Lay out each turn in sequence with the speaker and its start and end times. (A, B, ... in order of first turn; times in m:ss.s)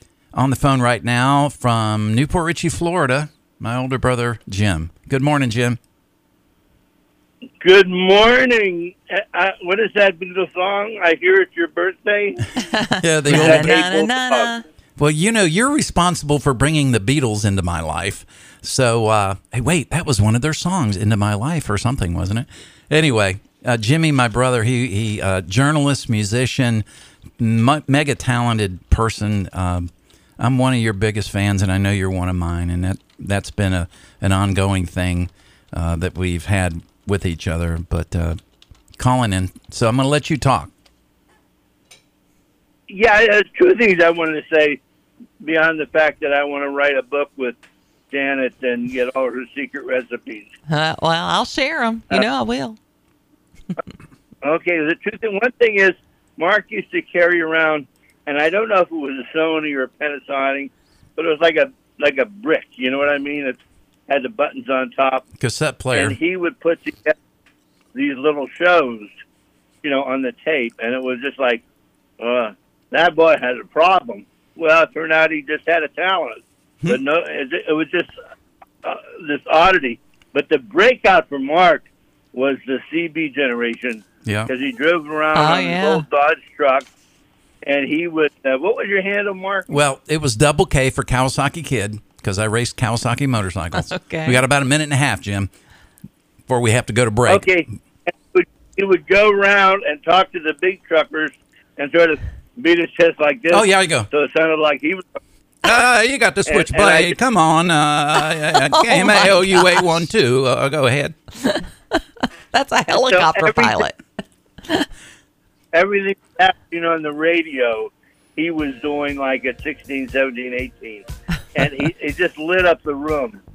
0:00.3-0:05.8 A
0:07.6-0:12.5 B
0:12.6-0:14.6 C
0:13.0-0:13.8 A
0:13.3-0:14.6 B
0:15.0-0:26.8 A
0:27.4-0:38.4 A
0:39.0-0:40.7 A
0:42.9-0:44.8 B
0:45.4-0:47.6 B
0:48.1-0:50.5 B
0:50.7-0:52.8 C
0:54.4-1:05.2 B
1:05.4-1:06.2 A
1:06.0-1:07.2 B
1:07.9-1:09.1 B
1:09.8-1:11.6 B
1:12.2-1:18.1 B
1:18.8-1:26.9 B
1:24.2-1:24.5 A
1:25.3-1:26.1 C
1:27.6-1:29.7 B
1:29.7-1:35.5 A
1:33.8-1:34.4 C
1:36.5-1:37.6 A
1:37.3-1:37.7 B
1:38.2-1:45.0 B
1:43.5-1:44.1 A
1:45.6-1:51.2 A
1:46.5-1:47.2 B
1:48.5-1:50.0 C
1:51.4-1:52.0 C
1:52.5-1:54.0 C
1:52.9-1:53.9 B
1:55.7-2:03.4 B